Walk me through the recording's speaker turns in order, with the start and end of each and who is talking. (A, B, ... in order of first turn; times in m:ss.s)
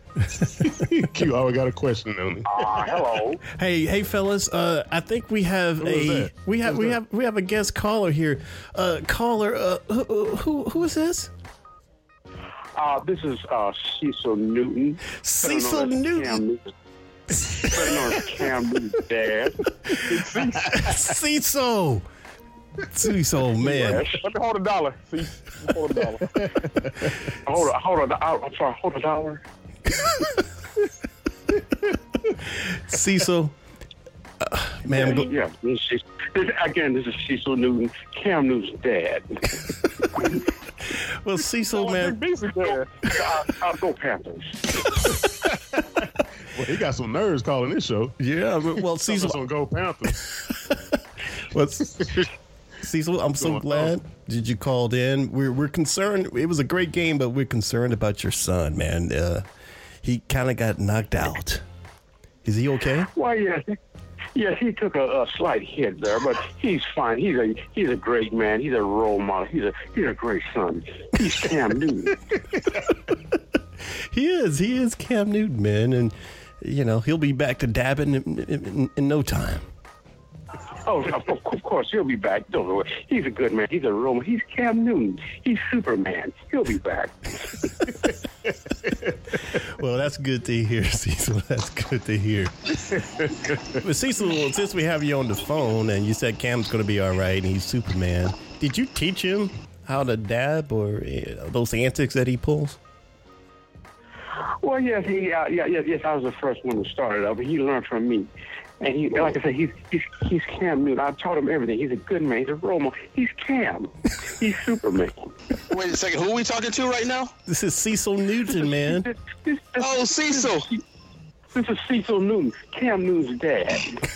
0:00.4-0:03.1 A
0:02.4-0:03.4 B
0:03.4-0:11.3 C
0:05.8-0:07.0 A
0:12.8-0:16.6 B
0:15.1-0:16.4 C
0:17.5-0:18.1 C
0:17.5-0:19.6 B
0:20.0-0:20.8 D
0:20.6-0:22.0 C
0:22.9-0:24.1 C
0:23.7-0:26.4 D
0:23.8-0:24.1 B
0:26.3-0:27.1 A
0:27.4-0:29.4 B
0:29.9-0:30.4 C
0:32.4-0:33.5 C
0:34.4-0:35.3 C
0:34.9-0:39.5 B
0:40.9-0:42.2 C
0:41.7-0:42.9 D
0:42.7-0:44.7 B
0:46.5-0:48.2 A
0:48.2-0:49.4 C
0:49.0-0:50.2 A
0:50.7-0:52.3 C
0:52.8-0:59.4 C
0:53.4-0:53.9 A
1:00.0-1:01.6 C
1:02.4-1:03.1 C
1:03.1-1:03.7 B
1:04.3-1:12.2 B
1:14.1-1:19.6 C
1:20.8-1:27.4 B
1:29.5-1:32.7 C
1:32.9-1:33.8 A
1:33.8-1:42.8 C
1:44.6-1:48.3 B
1:48.8-1:55.3 B
1:55.7-1:57.3 E
1:57.5-1:59.1 C
1:58.5-2:00.8 B
1:59.8-2:00.7 E
2:01.5-2:04.0 B